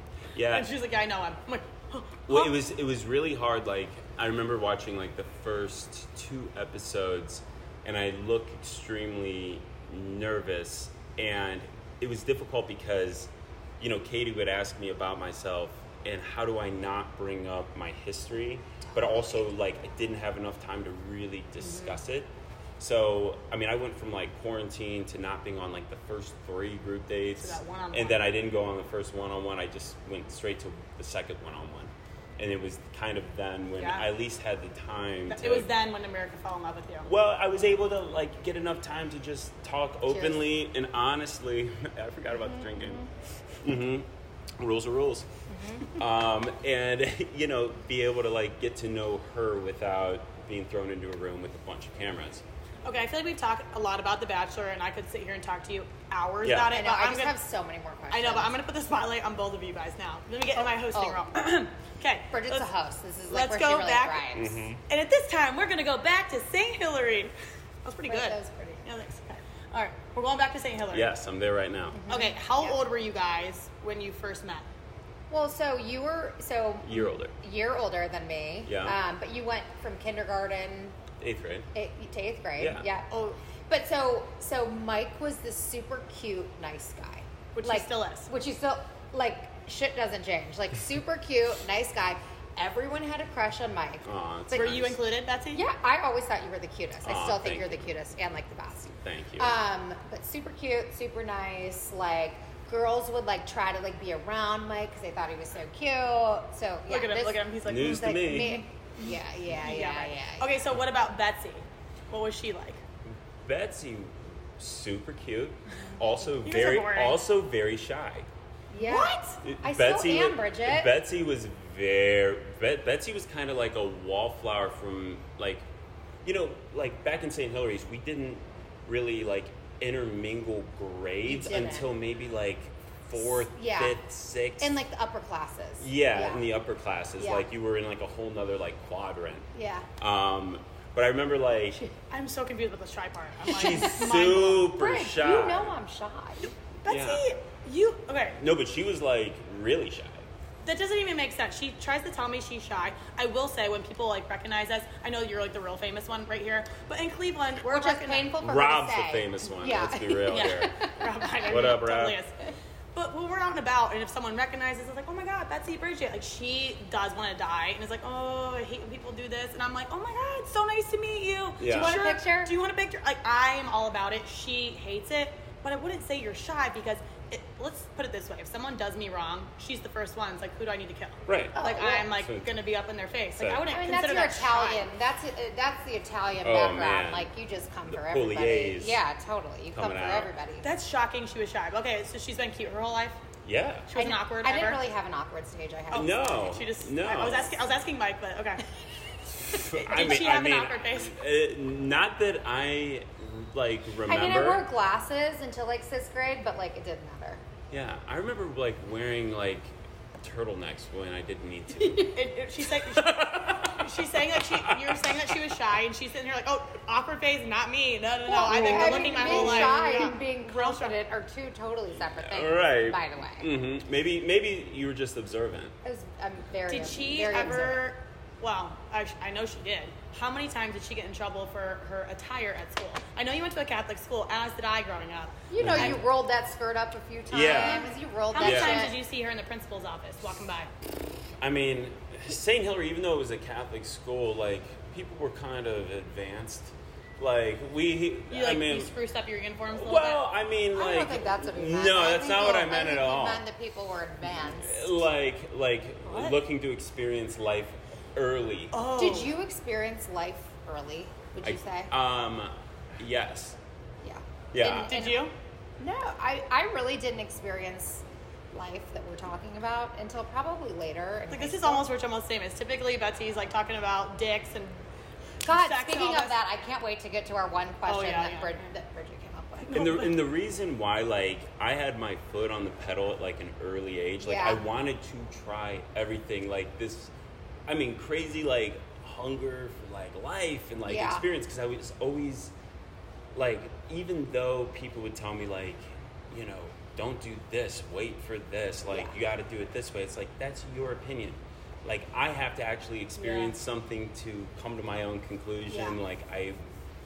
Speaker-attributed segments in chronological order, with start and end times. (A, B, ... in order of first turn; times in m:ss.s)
0:00.4-0:00.7 A
0:00.5-0:02.5 B
0:02.3-0:35.7 A
0:21.6-0:22.0 B
0:27.4-0:28.2 B
0:33.8-0:34.0 B
0:35.3-0:37.1 B
0:37.0-0:43.1 A
0:40.1-0:40.4 C
0:42.3-0:43.1 C
0:43.6-0:44.1 A
0:44.6-0:45.3 A
0:45.5-0:46.0 C
0:45.9-0:52.4 A
0:52.8-0:57.4 B
0:56.4-0:56.7 A
0:56.6-0:58.5 C
0:58.1-1:02.7 B
1:00.8-1:01.4 C
1:02.3-1:04.6 C
1:03.3-1:04.2 B
1:04.3-1:04.8 A
1:04.9-1:07.3 B
1:07.8-1:11.1 B
1:08.1-1:08.8 C
1:10.9-1:12.0 A
1:11.9-1:12.8 C
1:12.1-1:14.7 B
1:15.3-1:21.0 C
1:16.8-1:17.3 A
1:18.6-1:19.0 A
1:21.2-1:21.7 A
1:21.7-1:23.1 C
1:22.6-1:22.9 A
1:23.1-1:23.4 B
1:23.7-1:34.8 C
1:27.5-1:28.3 B
1:34.0-1:35.0 A
1:34.5-1:35.6 B
1:35.5-1:50.6 C
1:37.0-1:37.9 A
1:39.0-1:39.6 A
1:46.9-1:52.8 B
1:47.6-1:48.6 A
1:53.4-1:58.3 A
1:56.4-1:57.2 B
1:58.7-2:00.9 C
1:58.8-1:59.1 B
1:59.4-2:05.6 A
2:06.2-2:14.8 A
2:11.2-2:11.9 C
2:13.2-2:14.0 C
2:14.6-2:16.4 C
2:15.8-2:19.5 A
2:17.2-2:17.5 C
2:19.5-2:19.9 C
2:20.0-2:21.8 A
2:22.1-2:24.7 B
2:23.5-2:25.7 A
2:23.7-2:24.0 C
2:24.7-2:26.5 C
2:26.8-2:28.4 B
2:26.9-2:27.2 A
2:28.4-2:30.3 A
2:30.6-2:38.3 B
2:37.6-2:40.9 C
2:38.4-2:40.8 A
2:40.3-2:42.4 B
2:41.5-2:42.2 A
2:42.9-3:04.9 B
2:51.6-2:52.0 A
2:51.7-2:52.5 C
3:01.3-3:02.5 A
3:01.6-3:02.0 C
3:03.4-3:03.7 A
3:03.7-3:10.7 C
3:06.4-3:07.3 A
3:07.9-3:09.0 A
3:09.7-3:10.3 A
3:10.6-3:13.2 B
3:13.4-3:13.9 A
3:13.9-3:14.8 B
3:14.0-3:16.6 C
3:15.9-3:17.6 A
3:15.9-3:18.6 B
3:19.4-3:24.7 A
3:19.8-3:21.1 B
3:24.0-3:27.4 C
3:27.7-3:32.3 A
3:32.0-3:40.9 B
3:32.8-3:35.2 A
3:38.3-3:43.5 C
3:38.5-3:39.7 A
3:42.2-3:45.7 A
3:45.8-3:47.8 C
3:46.7-3:56.0 B
3:55.5-3:59.0 C
3:55.6-3:56.0 A
3:57.3-3:57.9 A
3:57.4-4:00.7 B
3:58.4-3:58.9 A
4:01.4-4:08.9 A
4:08.3-4:10.2 B
4:09.7-4:13.4 A
4:10.7-4:15.0 C
4:14.2-4:18.8 A
4:16.1-4:16.4 B
4:18.7-4:19.3 B
4:18.9-4:21.9 C
4:21.4-4:23.6 A
4:24.0-4:25.2 C
4:24.5-4:24.9 A
4:24.8-4:25.3 B
4:25.8-4:31.9 C
4:31.3-4:34.8 B
4:35.4-4:36.4 B
4:35.4-4:39.8 C
4:37.8-4:38.7 B
4:39.6-4:40.1 B
4:39.7-4:47.1 A
4:44.2-4:44.6 C
4:47.7-4:52.5 A
4:50.8-4:51.2 C
4:53.4-5:06.6 A
4:58.9-4:59.1 C
5:05.7-5:06.0 C